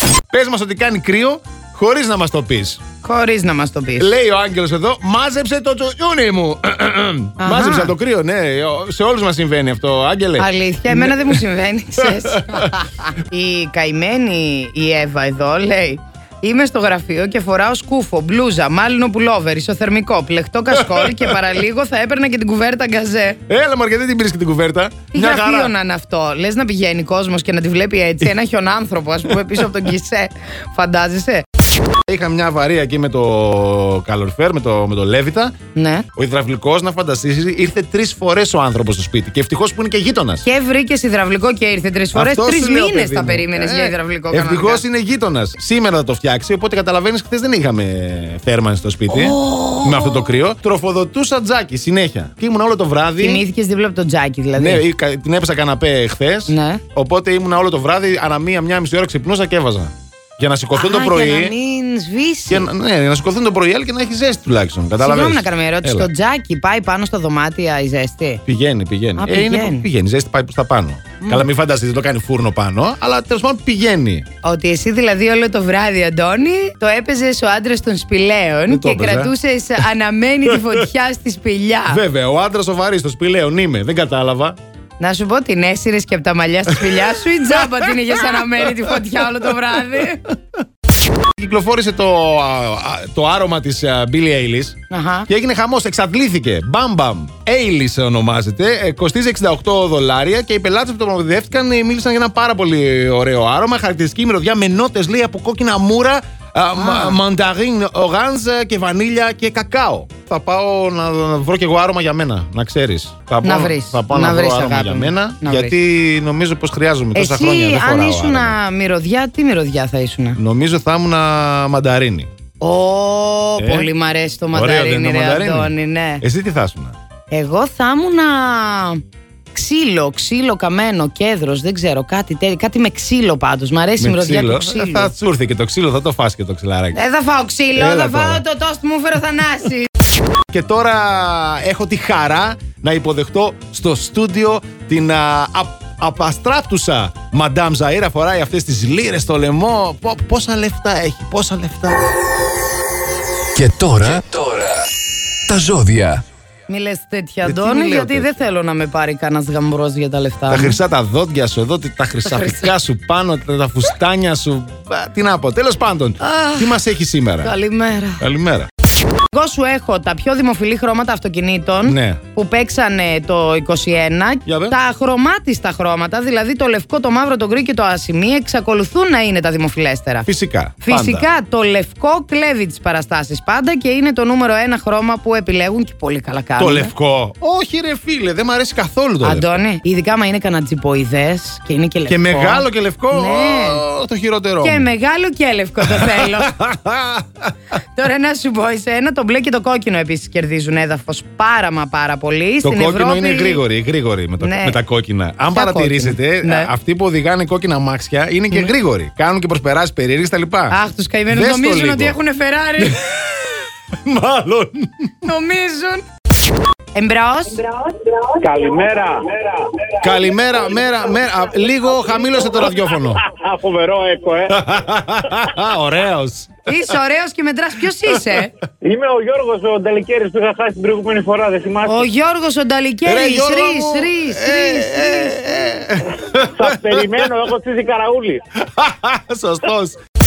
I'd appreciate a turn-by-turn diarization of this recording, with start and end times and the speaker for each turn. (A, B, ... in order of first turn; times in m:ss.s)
0:00.3-0:02.8 A
0:03.0-0:04.1 B
0:04.0-0:11.4 A
0:07.4-0:07.9 B
0:10.4-0:23.4 B
0:12.0-0:12.7 A
0:20.7-0:21.4 A
0:23.5-0:25.7 A
0:25.1-0:31.4 B
0:32.0-0:35.6 A
0:35.7-0:36.1 B
0:36.1-0:40.4 A
0:40.4-0:44.8 B
0:42.1-0:53.4 A
0:49.1-0:50.1 B
0:53.2-0:54.8 B
0:54.6-1:01.5 A
0:56.5-0:56.8 B
1:00.7-1:02.7 B
1:02.5-1:06.1 A
1:05.0-1:08.4 B
1:08.4-1:14.2 A
1:09.2-1:09.8 B
1:11.2-1:11.4 B
1:14.4-1:22.0 B
1:18.7-1:19.3 A
1:20.5-1:20.8 A
1:21.9-1:24.6 A
1:25.0-1:30.2 B
1:26.7-1:29.2 A
1:31.4-1:34.8 A
1:34.9-1:35.3 B
1:35.3-1:58.6 A
1:46.8-1:47.2 B
1:53.4-1:55.7 B
1:57.1-2:00.4 B
2:00.4-2:02.3 A
2:02.6-2:06.2 B
2:03.6-2:03.9 A
2:04.5-2:06.9 A
2:07.3-2:09.0 B
2:09.5-2:15.1 B
2:14.0-2:17.0 A
2:16.9-2:19.9 B
2:17.7-2:18.4 A
2:20.5-2:32.0 A
2:33.5-2:34.9 C
2:35.5-2:36.2 C
2:36.7-2:40.8 B
2:37.4-2:38.4 A
2:40.5-2:47.5 A
2:42.2-2:42.7 B
2:46.2-2:46.7 B
2:47.4-2:48.2 B
2:48.2-2:48.7 A
2:49.3-3:00.3 B
2:51.8-2:52.2 A
2:54.4-2:54.8 A
3:00.2-3:01.3 A
3:00.8-3:06.9 B
3:06.6-3:09.4 A
3:09.2-3:13.8 B
3:12.1-3:14.9 A
3:14.6-3:16.6 B
3:15.8-3:17.5 A
3:17.9-3:23.6 B
3:22.6-3:30.8 A
3:24.4-3:24.8 B
3:25.5-3:26.7 B
3:30.7-3:33.0 B
3:31.3-3:32.2 A
3:32.8-3:33.2 A
3:34.0-3:35.3 A
3:35.2-3:36.0 B
3:36.9-3:37.7 B
3:38.3-3:39.9 D
3:40.0-3:43.2 A
3:43.2-3:44.6 D
3:44.5-3:46.9 A
3:46.6-3:48.5 B
3:48.8-3:52.0 D
3:51.8-3:55.4 B
3:53.0-3:57.3 A
3:56.3-3:58.4 D
3:58.6-4:00.0 A